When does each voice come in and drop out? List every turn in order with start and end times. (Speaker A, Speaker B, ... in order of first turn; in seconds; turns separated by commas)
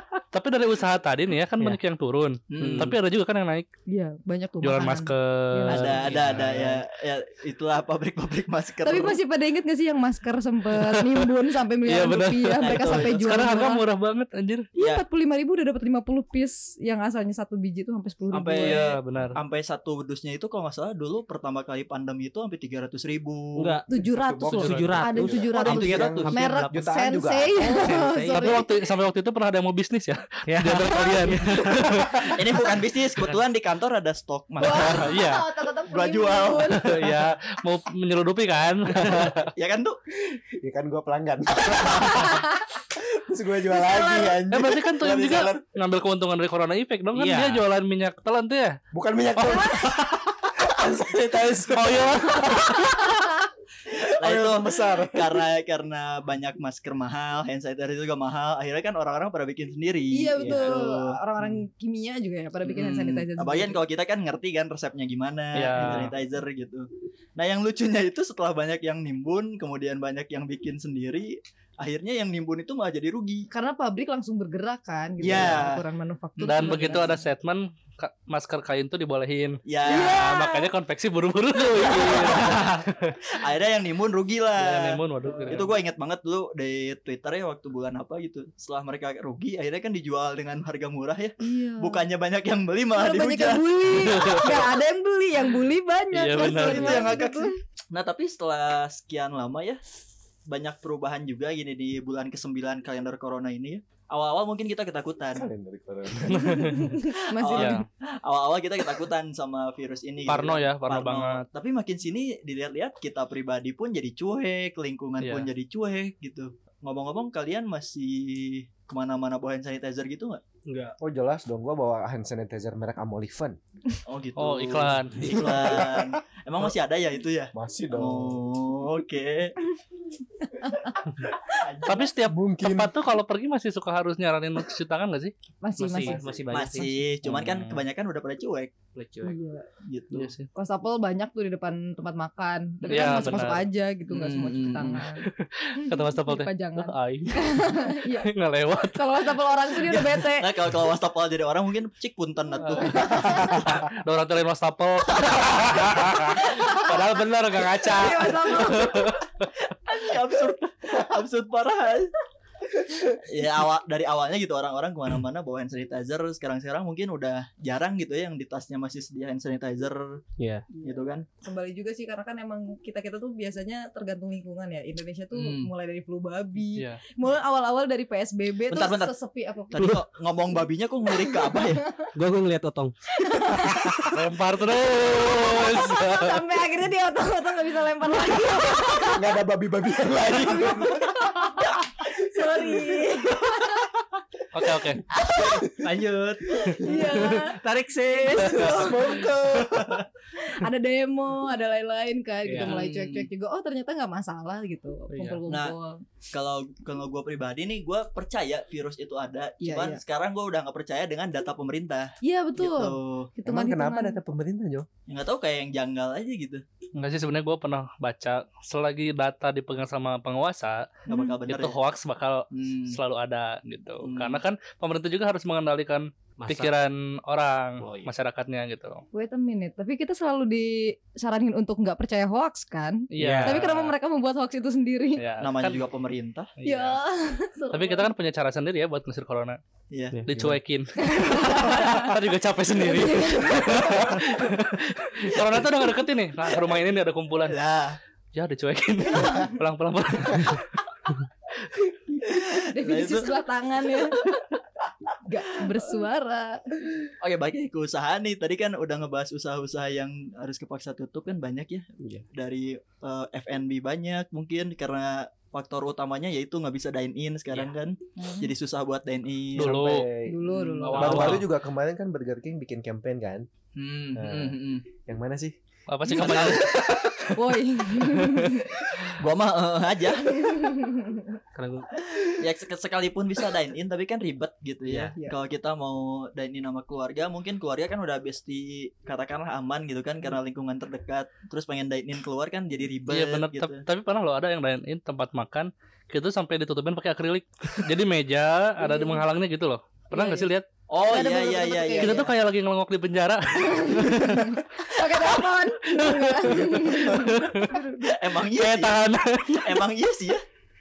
Speaker A: 0.3-3.7, Speaker B: 2.5-2.9, Speaker C: 2.6-3.0, Speaker D: 3.9-6.3, Speaker A: 4.6-6.7, Speaker B: 5.7-9.2, Speaker C: 6.3-6.7, Speaker D: 8.8-13.8, Speaker A: 10.8-11.2, Speaker A: 11.8-14.7, Speaker B: 12.6-13.3, Speaker D: 14.8-18.9, Speaker B: 18.3-23.8, Speaker A: 18.6-19.4, Speaker C: 23.6-23.9, Speaker D: 23.9-28.7, Speaker E: 24.0-27.6, Speaker C: 24.5-26.6, Speaker B: 25.6-26.7, Speaker C: 27.6-28.6, Speaker A: 28.3-32.6, Speaker C: 30.5-32.1, Speaker B: 32.3-35.1, Speaker D: 34.6-37.0, Speaker A: 34.7-35.5, Speaker B: 35.9-36.9, Speaker A: 36.7-39.5, Speaker C: 39.0-39.3, Speaker B: 39.4-40.0, Speaker E: 40.3-45.8, Speaker D: 42.1-42.5, Speaker D: 43.7-44.4, Speaker A: 44.5-48.8, Speaker C: 47.1-47.6, Speaker E: 48.9-53.2, Speaker A: 49.4-50.0, Speaker A: 51.7-52.9, Speaker E: 53.9-55.5, Speaker B: 54.0-61.6, Speaker D: 60.1-63.8, Speaker C: 60.4-60.8, Speaker B: 62.6-73.5, Speaker A: 65.5-66.1, Speaker D: 73.5-77.2, Speaker B: 75.2-75.8, Speaker B: 76.4-77.1, Speaker A: 76.4-83.2, Speaker B: 79.7-80.2, Speaker D: 79.9-80.7, Speaker D: 81.7-82.6, Speaker C: 82.6-82.8, Speaker B: 83.3-94.5, Speaker A: 84.6-85.7, Speaker D: 91.4-92.0, Speaker D: 93.0-97.5, Speaker A: 93.9-94.7, Speaker A: 96.1-97.1, Speaker B: 96.4-99.8, Speaker B: 100.5-105.5, Speaker E: 105.3-106.7, Speaker A: 106.2-106.9, Speaker D: 106.3-107.8, Speaker B: 107.4-120.4, Speaker A: 107.5-107.8, Speaker A: 110.3-111.4, Speaker A: 115.2-115.5, Speaker C: 120.7-121.0, Speaker E: 121.0-123.6, Speaker B: 124.0-129.6, Speaker A: 124.4-125.4, Speaker E: 125.3-126.2, Speaker E: 127.5-128.4, Speaker D: 130.6-130.9, Speaker B: 131.4-132.1, Speaker A: 131.8-135.3, Speaker E: 132.2-132.9, Speaker D: 135.6-136.3, Speaker C: 135.8-137.4, Speaker B: 136.5-138.7, Speaker A: 137.3-137.8, Speaker C: 138.9-139.4, Speaker D: 139.2-139.7, Speaker B: 139.8-140.3, Speaker A: 140.1-140.5, Speaker D: 140.6-150.5, Speaker B: 142.9-143.4, Speaker A: 142.9-143.6, Speaker B: 144.1-145.0, Speaker A: 145.3-149.3, Speaker B: 149.8-153.5, Speaker A: 152.6-159.3, Speaker D: 153.0-153.7, Speaker D: 156.3-157.0, Speaker D: 157.8-159.2, Speaker B: 159.6-162.1, Speaker B: 162.9-170.2, Speaker C: 170.4-170.7, Speaker D: 170.7-180.0, Speaker B: 170.8-171.2, Speaker B: 175.3-175.7, Speaker A: 176.8-177.0, Speaker B: 178.7-179.1, Speaker B: 179.7-181.9, Speaker D: 181.1-182.1, Speaker C: 182.1-182.9, Speaker D: 183.2-184.1, Speaker E: 183.8-184.1, Speaker A: 184.1-186.4, Speaker D: 184.9-189.3, Speaker E: 188.9-191.3, Speaker D: 190.2-193.9, Speaker A: 194.5-195.1, Speaker C: 195.4-198.9, Speaker D: 196.6-199.3, Speaker A: 198.6-198.9, Speaker E: 198.6-200.0, Speaker D: 200.3-206.0, Speaker C: 202.4-202.8, Speaker B: 202.6-203.3, Speaker A: 205.1-205.4, Speaker B: 205.5-205.8, Speaker B: 206.3-213.3, Speaker D: 209.6-210.0, Speaker D: 212.2-214.2, Speaker E: 213.4-214.9, Speaker B: 215.1-216.6, Speaker A: 217.0-229.0, Speaker D: 221.1-221.4, Speaker B: 221.1-221.8, Speaker B: 222.5-223.0, Speaker B: 224.0-224.4, Speaker C: 226.4-226.8, Speaker C: 227.8-228.1, Speaker D: 229.1-235.2, Speaker A: 233.1-233.9, Speaker C: 233.2-233.6, Speaker A: 235.2-235.9, Speaker B: 235.4-236.5, Speaker A: 236.6-237.0, Speaker D: 236.6-238.1, Speaker A: 237.7-239.6, Speaker B: 239.9-240.2, Speaker C: 240.1-240.4, Speaker A: 240.3-247.6, Speaker D: 241.0-242.1, Speaker D: 242.8-244.2, Speaker B: 247.5-248.0, Speaker A: 248.3-250.7, Speaker B: 252.2-253.4, Speaker D: 252.6-254.3, Speaker D: 255.2-257.0, Speaker B: 257.2-269.8, Speaker D: 268.2-268.5, Speaker A: 269.6-270.1, Speaker E: 269.6-270.4, Speaker D: 270.3-271.4, Speaker B: 270.5-271.4, Speaker A: 270.8-271.5, Speaker E: 270.9-273.5, Speaker B: 273.8-274.9, Speaker E: 274.1-275.6, Speaker A: 275.9-278.6, Speaker B: 276.1-276.9, Speaker D: 277.3-278.7, Speaker B: 279.0-280.5, Speaker D: 280.2-281.4, Speaker C: 281.5-281.9, Speaker B: 282.1-293.8, Speaker C: 284.9-285.1, Speaker A: 293.1-300.7, Speaker D: 298.8-299.2, Speaker D: 300.1-300.5, Speaker B: 300.9-302.3, Speaker D: 301.1-302.3, Speaker A: 302.0-304.9, Speaker D: 303.6-308.1, Speaker A: 305.9-307.8, Speaker B: 308.0-310.4, Speaker A: 308.5-309.8